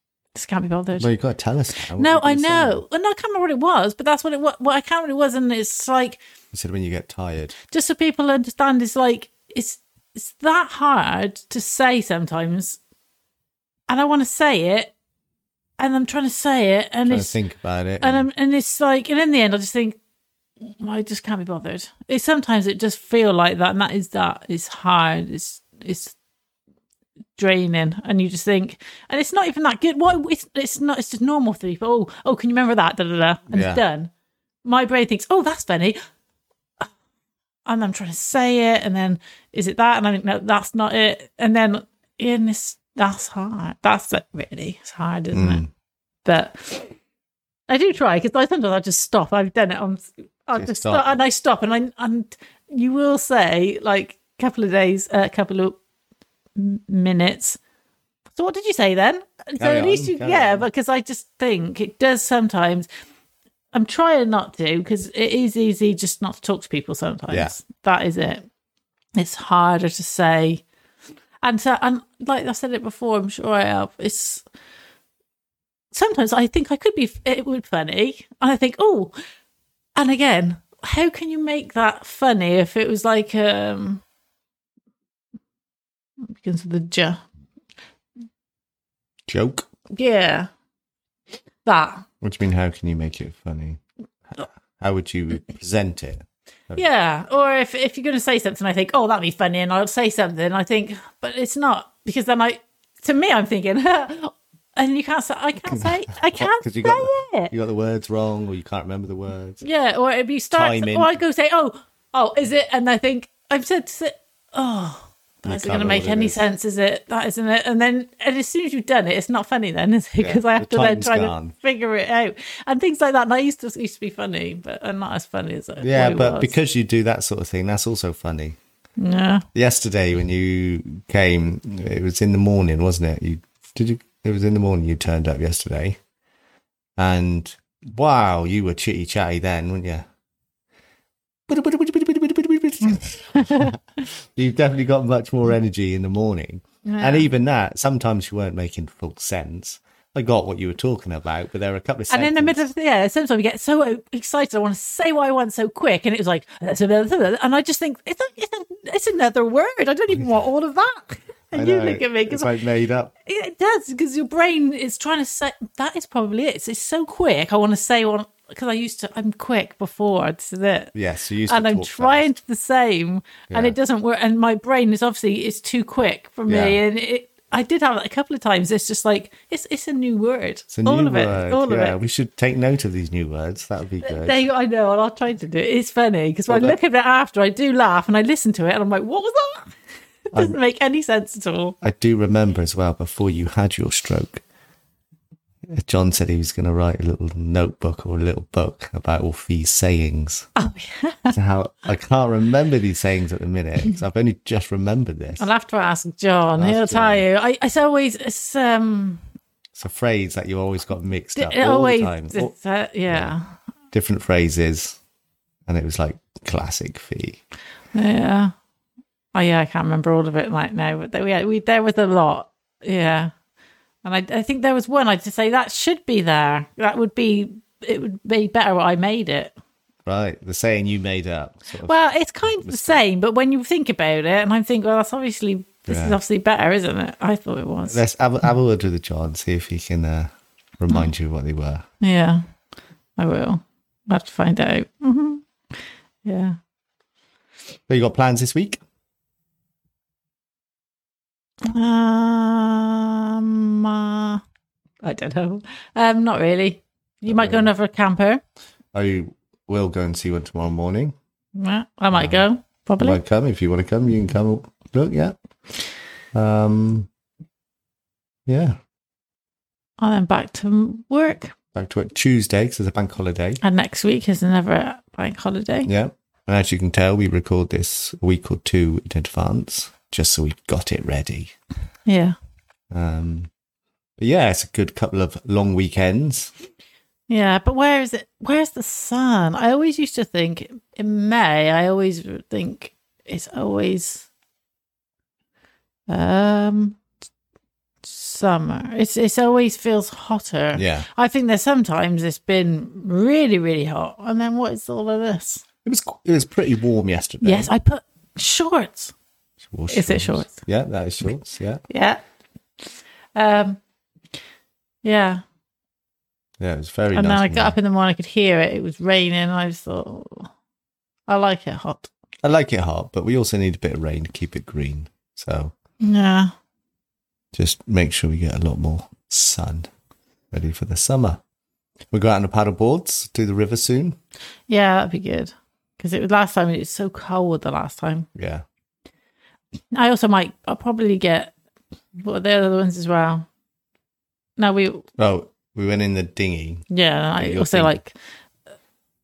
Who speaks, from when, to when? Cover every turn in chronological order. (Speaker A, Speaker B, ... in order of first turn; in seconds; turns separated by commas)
Speaker A: 0.3-1.1, Speaker B: 1.0-2.8, Speaker A: 2.0-6.2, Speaker B: 6.5-7.6, Speaker A: 7.7-12.8, Speaker A: 13.9-14.9, Speaker A: 15.8-17.3, Speaker B: 17.1-18.3, Speaker A: 18.0-20.0, Speaker A: 20.6-26.1, Speaker A: 27.4-34.1, Speaker B: 33.5-33.8, Speaker A: 34.6-36.0, Speaker A: 37.7-45.6, Speaker B: 45.3-45.7, Speaker A: 46.2-47.0, Speaker A: 47.7-55.8, Speaker B: 50.5-51.2, Speaker A: 56.6-57.6, Speaker A: 58.4-62.9, Speaker B: 59.6-60.7, Speaker A: 63.7-68.5, Speaker B: 67.3-67.5, Speaker A: 69.2-70.6, Speaker A: 71.4-74.5, Speaker A: 75.9-79.1, Speaker A: 80.0-84.0, Speaker A: 86.3-87.2, Speaker B: 89.3-89.7, Speaker A: 89.9-90.5, Speaker A: 91.7-92.1, Speaker B: 92.2-93.8, Speaker B: 94.4-96.8, Speaker A: 96.8-107.5, Speaker B: 105.7-109.7, Speaker A: 109.6-126.5, Speaker B: 110.5-111.2, Speaker B: 115.5-116.4, Speaker B: 120.2-121.5, Speaker B: 125.8-128.6, Speaker A: 129.0-129.5, Speaker B: 129.5-136.0, Speaker B: 137.0-140.1, Speaker B: 141.5-152.7, Speaker A: 142.8-143.8, Speaker A: 146.8-147.3, Speaker A: 152.1-162.5, Speaker B: 161.5-163.1, Speaker A: 163.2-170.9, Speaker B: 170.9-172.3, Speaker A: 171.5-182.0, Speaker B: 173.5-173.8, Speaker B: 176.5-176.8, Speaker B: 180.7-184.4, Speaker A: 184.0-189.8, Speaker B: 186.5-186.8, Speaker A: 190.3-191.8, Speaker B: 191.8-194.4, Speaker B: 195.7-200.5, Speaker A: 200.6-201.3, Speaker B: 201.3-205.5, Speaker A: 205.4-209.2, Speaker B: 206.6-207.2, Speaker B: 209.8-212.5, Speaker A: 211.4-213.4, Speaker B: 213.1-213.3, Speaker B: 213.9-215.0, Speaker B: 215.7-217.4, Speaker A: 217.9-218.5, Speaker A: 219.3-223.3, Speaker A: 224.0-229.5, Speaker B: 230.1-233.0, Speaker A: 231.8-238.0, Speaker B: 235.9-236.2, Speaker B: 237.9-241.8, Speaker A: 242.0-242.5, Speaker A: 243.2-245.4, Speaker A: 246.2-246.6, Speaker B: 247.9-248.8, Speaker A: 251.7-254.4, Speaker A: 255.0-258.4, Speaker B: 257.3-257.7, Speaker B: 258.9-261.2, Speaker A: 261.6-263.2, Speaker B: 262.1-262.4, Speaker B: 263.0-265.4, Speaker B: 266.3-267.1, Speaker B: 268.5-268.8, Speaker A: 270.0-271.5, Speaker B: 271.7-273.6, Speaker A: 273.6-275.9, Speaker B: 275.9-281.5, Speaker A: 282.1-282.4, Speaker B: 282.9-283.5, Speaker B: 284.2-286.5, Speaker A: 287.3-294.3, Speaker A: 296.1-297.0, Speaker A: 298.0-305.6, Speaker B: 300.8-301.1, Speaker B: 305.8-307.7, Speaker A: 307.4-309.1, Speaker B: 309.6-311.8, Speaker A: 309.9-310.6, Speaker A: 311.9-312.2, Speaker A: 313.4-313.8, Speaker A: 315.0-315.4, Speaker B: 316.6-317.8, Speaker A: 317.1-320.5, Speaker A: 321.3-322.1, Speaker B: 322.4-325.7, Speaker A: 326.0-326.5, Speaker B: 327.5-329.9, Speaker B: 330.5-331.4, Speaker B: 332.1-334.2, Speaker A: 334.7-338.3, Speaker B: 338.4-338.6, Speaker A: 339.9-341.5, Speaker A: 342.2-343.5, Speaker A: 344.6-345.1, Speaker B: 345.2-346.9, Speaker A: 346.9-348.1, Speaker B: 347.4-347.9